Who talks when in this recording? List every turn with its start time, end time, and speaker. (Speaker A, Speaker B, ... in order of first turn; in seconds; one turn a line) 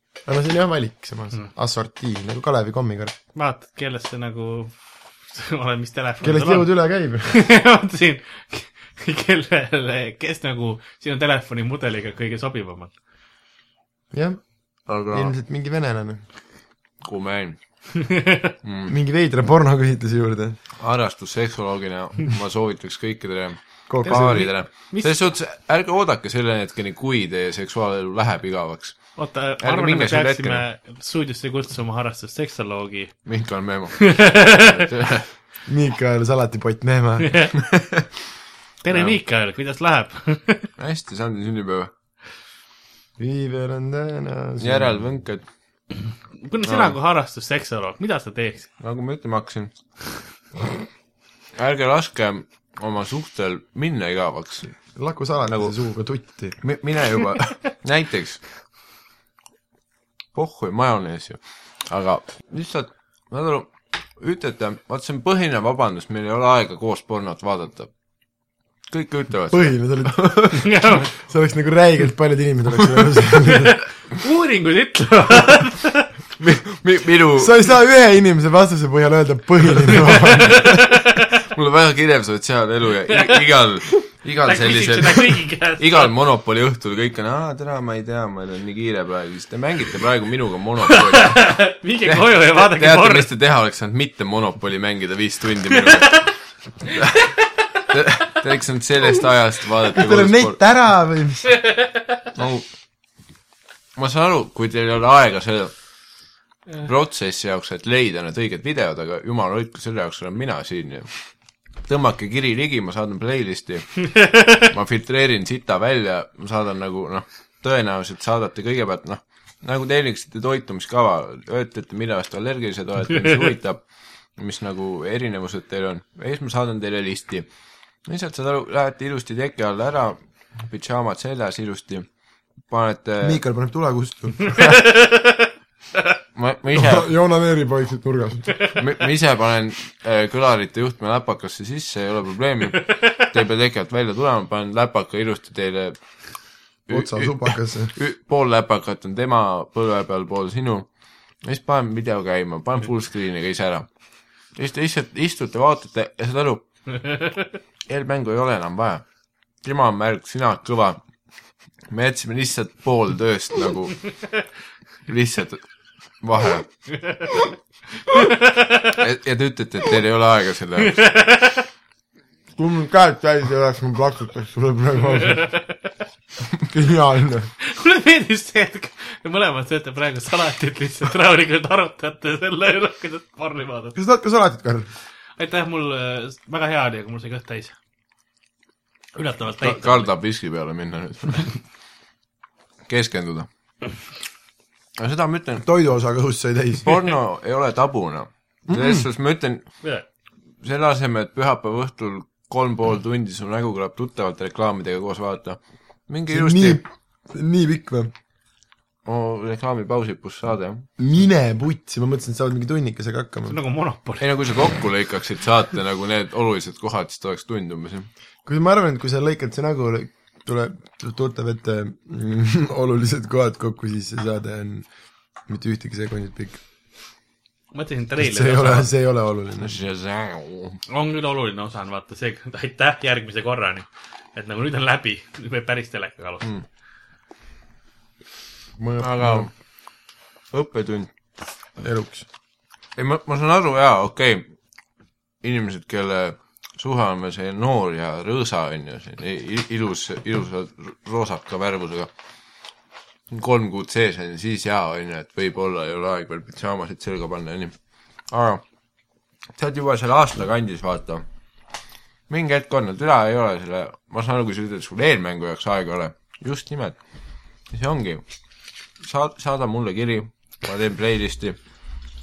Speaker A: 0.2-3.1
Speaker B: 3.3-4.7
Speaker B: 5.3-6.7
Speaker A: 6.2-7.3
Speaker B: 7.2-12.9
Speaker A: 14.1-14.4
Speaker C: 14.9-15.3
Speaker A: 15.1-16.2
Speaker C: 17.0-17.6
Speaker B: 17.9-18.5
Speaker C: 18.6-18.9
Speaker A: 18.9-20.6
Speaker C: 20.8-30.6
Speaker A: 23.9-24.5
Speaker B: 24.1-25.1
Speaker B: 29.1-33.1
Speaker C: 33.2-35.3
Speaker B: 34.0-34.8
Speaker A: 35.6-37.4
Speaker B: 37.2-37.5
Speaker C: 37.6-38.0
Speaker B: 38.8-40.7
Speaker C: 38.9-39.1
Speaker C: 40.8-41.9
Speaker A: 43.2-45.0
Speaker C: 44.6-45.4
Speaker B: 46.4-48.7
Speaker C: 46.6-47.0
Speaker C: 48.8-49.7
Speaker C: 51.5-54.8
Speaker A: 55.0-56.6
Speaker C: 55.5-55.7
Speaker C: 56.6-58.4
Speaker C: 60.3-67.9
Speaker C: 68.9-70.7
Speaker A: 69.5-73.8
Speaker B: 70.6-71.1
Speaker B: 73.6-76.1
Speaker C: 76.4-77.6
Speaker A: 77.4-80.8
Speaker C: 80.1-91.5
Speaker B: 80.3-81.3
Speaker B: 83.1-83.4
Speaker B: 84.4-86.1
Speaker B: 90.9-93.3
Speaker C: 92.0-96.3
Speaker B: 95.9-96.3
Speaker B: 96.9-97.2
Speaker C: 96.9-97.2
Speaker C: 97.9-100.6
Speaker A: 99.9-101.5
Speaker B: 101.5-102.1
Speaker C: 102.3-102.6
Speaker C: 104.0-105.7
Speaker C: 106.8-111.1
Speaker C: 111.8-123.8
Speaker C: 124.4-127.5
Speaker C: 128.1-132.1
Speaker C: 132.7-133.4
Speaker A: 133.2-134.8
Speaker B: 134.6-135.5
Speaker C: 136.3-137.1
Speaker A: 136.7-138.5
Speaker C: 138.7-145.9
Speaker C: 146.9-150.9
Speaker A: 146.9-147.9
Speaker C: 151.4-153.9
Speaker C: 154.6-156.6
Speaker C: 157.9-159.0
Speaker C: 159.6-161.0
Speaker C: 161.9-164.1
Speaker C: 165.1-165.6
Speaker C: 166.2-166.7
Speaker B: 168.1-168.9
Speaker C: 168.9-171.0
Speaker B: 170.8-171.7
Speaker A: 172.5-175.5
Speaker B: 175.3-175.8
Speaker A: 176.6-177.5
Speaker B: 177.6-184.0
Speaker A: 183.9-184.9
Speaker B: 185.4-187.7
Speaker B: 189.1-190.1
Speaker C: 189.6-191.5
Speaker C: 192.9-193.5
Speaker C: 195.0-195.6
Speaker A: 195.6-197.0
Speaker C: 196.8-199.7
Speaker A: 198.7-199.0
Speaker C: 200.6-206.8
Speaker A: 206.3-208.1
Speaker C: 209.1-210.9
Speaker A: 211.0-213.6
Speaker B: 213.5-214.2
Speaker C: 214.2-218.1
Speaker A: 218.4-224.8
Speaker A: 225.5-226.6
Speaker B: 227.7-228.9
Speaker A: 228.2-229.8
Speaker C: 229.6-230.8
Speaker B: 230.9-236.5
Speaker A: 238.8-239.5
Speaker C: 239.0-239.5
Speaker C: 240.5-241.1
Speaker A: 241.8-242.2
Speaker C: 243.0-244.5
Speaker C: 245.4-252.1
Speaker C: 253.3-257.7
Speaker C: 258.3-258.6
Speaker C: 259.6-261.2
Speaker C: 262.3-267.0
Speaker C: 267.7-268.2
Speaker C: 269.0-271.6